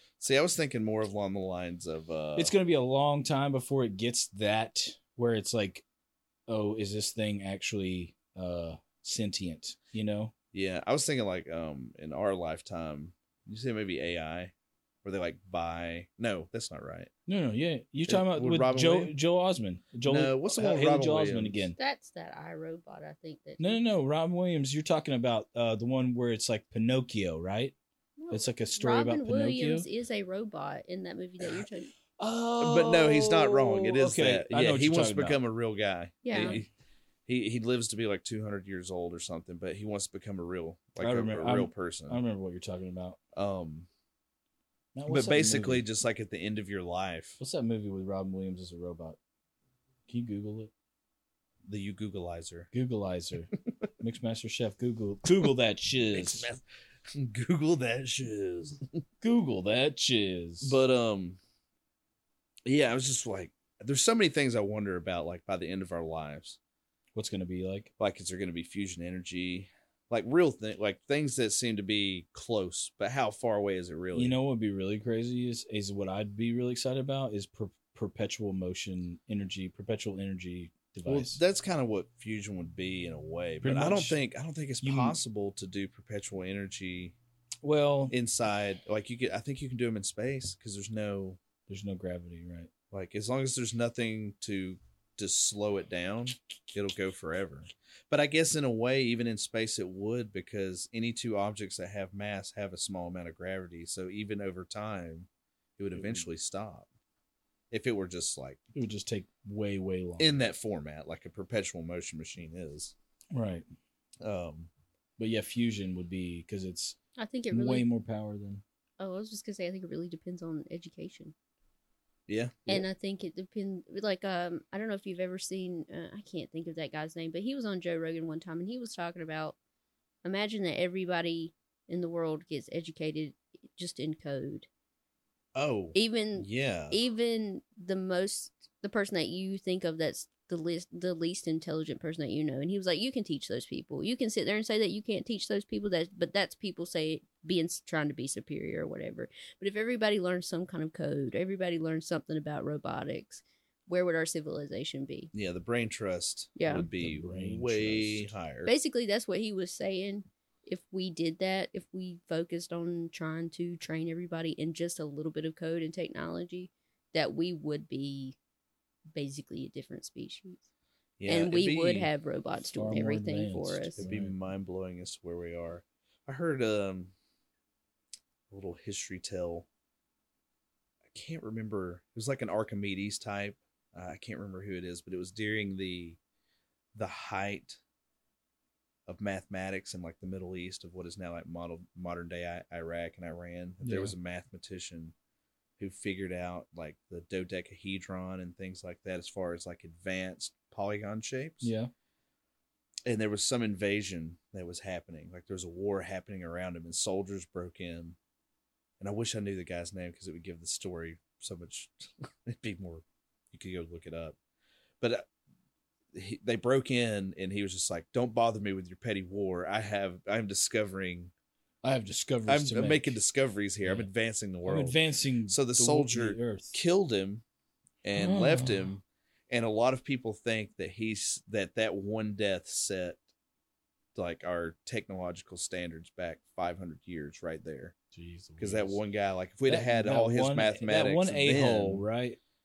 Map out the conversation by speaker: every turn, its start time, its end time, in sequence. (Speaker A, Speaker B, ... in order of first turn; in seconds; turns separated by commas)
Speaker A: 0.2-2.5, Speaker B: 2.4-5.8, Speaker B: 6.5-10.3, Speaker A: 10.5-14.5, Speaker A: 15.0-17.1, Speaker B: 17.3-21.8, Speaker A: 18.1-19.1, Speaker A: 20.0-21.7, Speaker C: 21.8-23.8, Speaker B: 23.6-27.7, Speaker C: 28.2-31.9, Speaker B: 28.3-29.9, Speaker B: 32.2-35.4, Speaker A: 32.6-36.7, Speaker C: 36.2-36.6, Speaker A: 37.2-42.2, Speaker B: 41.0-43.2, Speaker A: 43.3-43.9, Speaker B: 44.9-45.9, Speaker A: 45.1-47.4, Speaker B: 47.4-49.2, Speaker B: 50.1-50.7, Speaker A: 51.6-52.7, Speaker B: 52.7-56.5, Speaker A: 56.1-58.9, Speaker B: 59.2-60.8, Speaker A: 60.6-61.4, Speaker A: 62.6-66.6, Speaker B: 67.1-67.9, Speaker A: 68.0-74.3, Speaker B: 74.1-81.4, Speaker A: 81.0-87.1, Speaker B: 83.6-84.2, Speaker B: 84.8-85.2, Speaker B: 87.6-88.1, Speaker A: 88.1-91.4, Speaker B: 91.7-92.7, Speaker A: 92.9-106.9, Speaker B: 106.0-106.2, Speaker A: 107.7-108.6, Speaker B: 108.7-110.3, Speaker A: 110.2-112.9, Speaker B: 113.3-113.6, Speaker A: 114.2-114.7, Speaker B: 115.2-117.0, Speaker C: 117.2-117.9, Speaker B: 117.5-118.6, Speaker C: 119.0-121.3, Speaker A: 122.3-122.7, Speaker C: 122.7-129.6, Speaker C: 130.2-134.7, Speaker A: 135.5-137.0, Speaker C: 135.9-155.3, Speaker A: 155.3-158.7, Speaker C: 156.6-156.8, Speaker B: 156.7-158.3, Speaker C: 158.7-168.3, Speaker C: 169.1-170.6, Speaker A: 171.2-172.1, Speaker C: 171.3-174.1, Speaker B: 172.7-174.4, Speaker A: 174.0-177.1, Speaker A: 178.5-179.7, Speaker A: 181.1-186.2, Speaker A: 186.9-187.8, Speaker A: 189.1-195.1, Speaker B: 193.8-194.1, Speaker A: 195.8-201.7, Speaker B: 201.6-201.9, Speaker A: 203.1-208.2, Speaker A: 209.0-214.3, Speaker A: 215.0-215.3, Speaker A: 216.1-221.3, Speaker B: 221.8-223.2, Speaker A: 222.5-227.4, Speaker B: 223.8-224.1, Speaker B: 224.6-226.8, Speaker A: 228.0-233.2, Speaker B: 228.1-228.9, Speaker A: 234.1-237.9, Speaker B: 238.1-239.0, Speaker A: 238.6-242.0, Speaker B: 239.7-242.4